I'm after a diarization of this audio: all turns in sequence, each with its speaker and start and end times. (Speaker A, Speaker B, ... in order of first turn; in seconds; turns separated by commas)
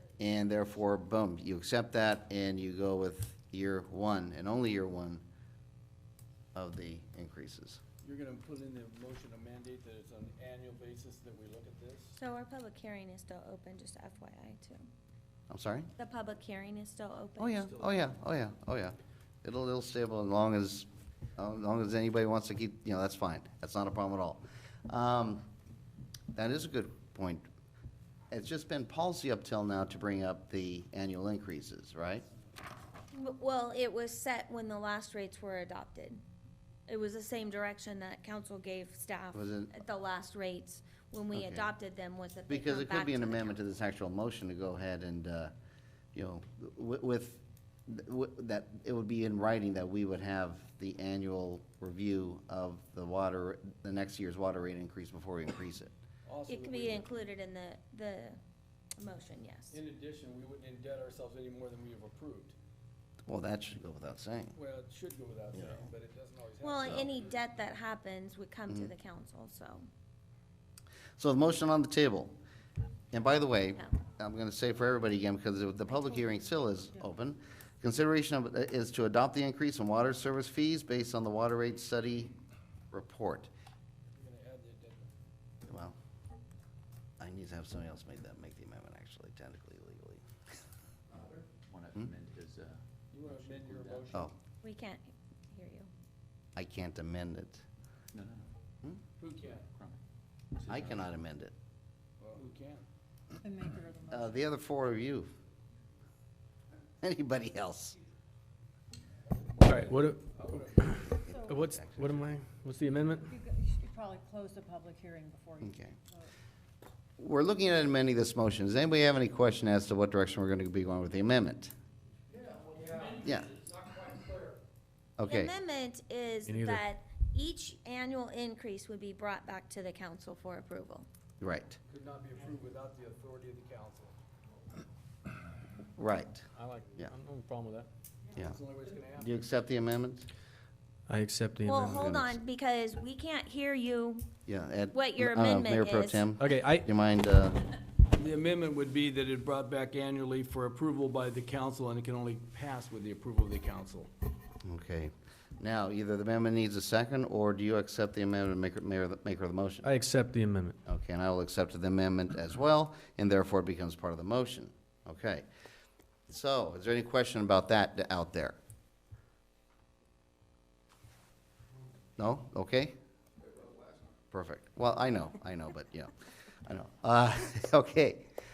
Speaker A: 0.2-5.2, Speaker A: 6.5-7.8, Speaker B: 8.0-12.2, Speaker C: 12.2-14.8, Speaker A: 15.5-15.9, Speaker C: 16.0-17.9, Speaker A: 17.4-25.4, Speaker A: 26.3-27.4, Speaker A: 28.3-32.2, Speaker C: 33.1-36.2, Speaker C: 36.9-43.6, Speaker A: 39.3-39.7, Speaker A: 41.3-41.7, Speaker A: 42.5-45.5, Speaker A: 46.1-55.9, Speaker B: 56.2-57.1, Speaker C: 56.5-58.4, Speaker C: 59.0-59.8, Speaker B: 59.7-62.5, Speaker A: 63.3-64.5, Speaker B: 64.5-67.1, Speaker A: 65.5-65.8, Speaker C: 66.6-69.9, Speaker A: 66.8-67.1, Speaker A: 71.2-72.3, Speaker A: 73.1-82.3, Speaker D: 75.9-76.3, Speaker A: 82.9-83.5, Speaker B: 84.1-85.1, Speaker A: 85.7-86.0, Speaker A: 87.2-90.2, Speaker E: 91.7-94.2, Speaker B: 93.1-94.3, Speaker C: 94.6-95.9, Speaker A: 96.5-97.6, Speaker E: 98.1-98.5, Speaker B: 99.2-99.7, Speaker E: 99.6-100.0, Speaker E: 100.5-101.1, Speaker A: 100.7-101.5, Speaker B: 102.2-102.8, Speaker D: 103.4-104.4, Speaker A: 104.1-105.3, Speaker A: 107.0-108.0, Speaker B: 109.3-111.0, Speaker F: 109.6-113.3, Speaker A: 111.1-112.3, Speaker D: 111.3-111.6, Speaker D: 113.3-116.3, Speaker A: 115.6-115.9, Speaker A: 117.2-121.7, Speaker B: 122.3-124.6, Speaker A: 123.2-123.5, Speaker A: 125.2-125.5, Speaker C: 125.2-131.1, Speaker F: 126.5-126.8, Speaker A: 131.4-131.8, Speaker B: 131.9-134.2, Speaker A: 136.0-137.1, Speaker F: 136.6-137.9, Speaker B: 138.3-139.3, Speaker A: 139.2-140.3, Speaker F: 141.1-142.1, Speaker C: 141.6-144.3, Speaker A: 141.9-142.3, Speaker A: 144.5-147.6, Speaker C: 144.9-146.3, Speaker F: 146.4-146.9, Speaker B: 148.1-154.1, Speaker A: 154.6-159.9, Speaker F: 159.8-160.8, Speaker A: 160.8-165.4, Speaker A: 166.3-168.6, Speaker A: 172.2-172.9, Speaker A: 174.3-176.1, Speaker A: 176.7-178.2